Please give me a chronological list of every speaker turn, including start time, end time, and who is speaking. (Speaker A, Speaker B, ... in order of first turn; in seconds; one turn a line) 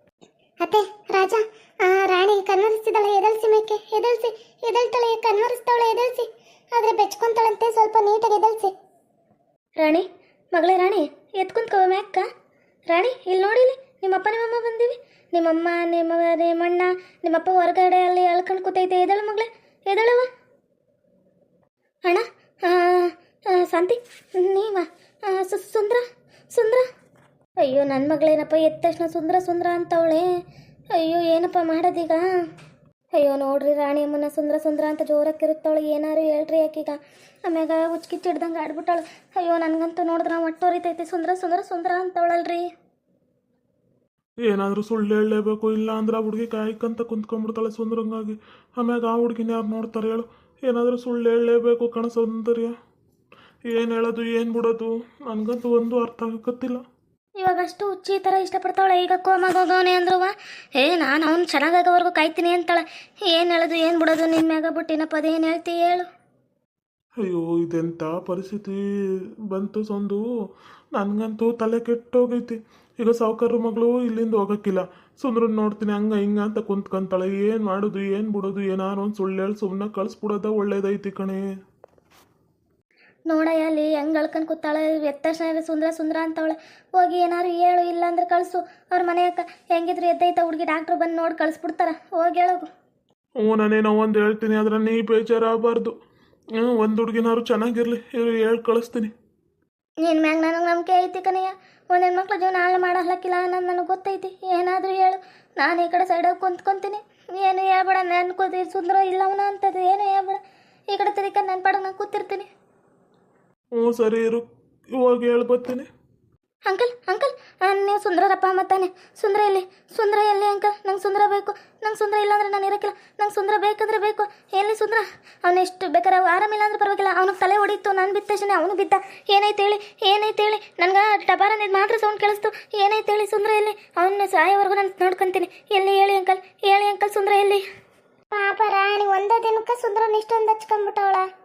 Speaker A: 0.6-8.7
Speaker B: 9.8-12.2
Speaker B: 12.9-20.3
Speaker B: 22.1-26.9
Speaker B: 27.6-30.2
Speaker B: 30.9-32.2
Speaker B: 33.1-42.7
Speaker C: 44.5-52.7
Speaker C: 53.7-56.8
Speaker B: 57.4-66.1
Speaker C: 67.2-68.8
Speaker C: 69.5-70.2
Speaker C: 70.9-81.4
Speaker B: 83.3-92.7
Speaker C: 93.4-95.9
Speaker C: 96.6-99.1
Speaker B: 100.0-112.5
Speaker C: 113.8-114.4
Speaker C: 115.0-115.9
Speaker B: 116.7-137.6
Speaker A: 138.3-141.3